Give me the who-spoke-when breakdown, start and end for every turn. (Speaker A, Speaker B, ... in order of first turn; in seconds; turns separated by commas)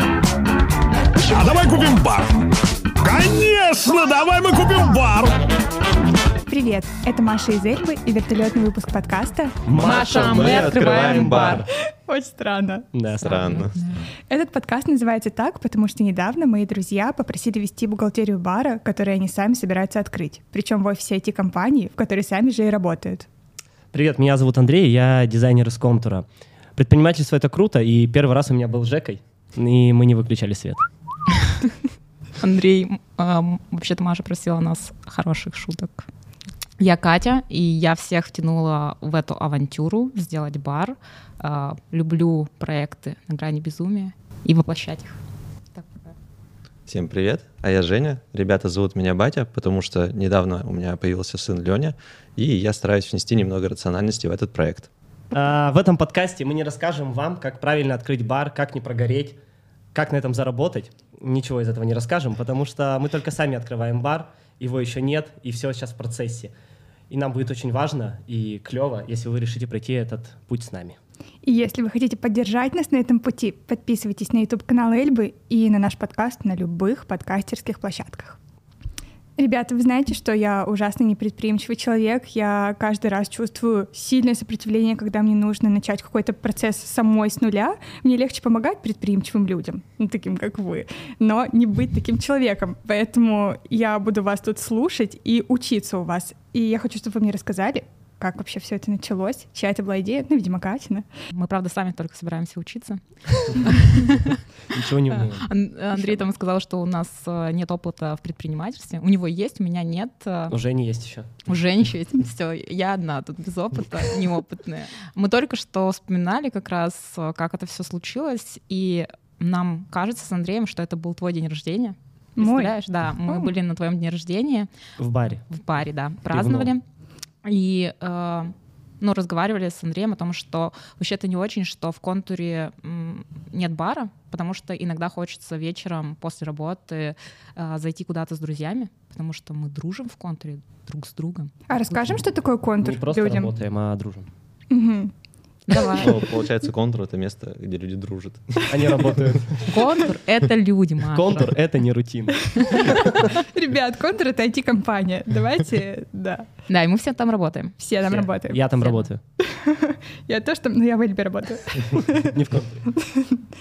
Speaker A: 1.2-2.4, Speaker A: 3.0-5.4, Speaker B: 6.5-9.6, Speaker C: 9.7-11.6, Speaker D: 9.8-11.7, Speaker E: 9.8-11.7, Speaker B: 12.0-12.9, Speaker C: 12.9-13.6, Speaker D: 13.1-14.1, Speaker E: 13.2-13.8, Speaker B: 14.3-23.3, Speaker C: 23.9-30.9, Speaker D: 32.4-36.1, Speaker D: 36.8-45.2, Speaker D: 45.8-46.1, Speaker E: 46.9-54.9, Speaker C: 55.3-59.4, Speaker C: 59.9-66.5, Speaker C: 67.1-71.0, Speaker B: 71.4-78.4, Speaker B: 79.4-101.1, Speaker D: 101.3-104.4, Speaker C: 104.7-105.5, Speaker D: 105.1-110.5, Speaker C: 110.5-111.4, Speaker D: 111.5-124.7, Speaker B: 122.4-123.5, Speaker C: 125.0-125.4, Speaker D: 125.5-126.8, Speaker C: 126.3-126.7, Speaker D: 127.4-142.2, Speaker B: 141.7-143.6, Speaker C: 142.8-144.3, Speaker B: 144.7-145.1, Speaker D: 145.7-146.2, Speaker B: 145.7-146.1, Speaker E: 146.0-149.4, Speaker C: 148.7-149.8, Speaker D: 149.7-151.6, Speaker C: 151.1-153.1, Speaker D: 152.6-153.2, Speaker B: 153.3-156.5, Speaker D: 156.7-157.8, Speaker B: 157.8-158.7, Speaker C: 158.1-159.2, Speaker D: 158.8-159.1, Speaker B: 159.4-162.3, Speaker C: 162.2-162.9, Speaker B: 163.0-163.4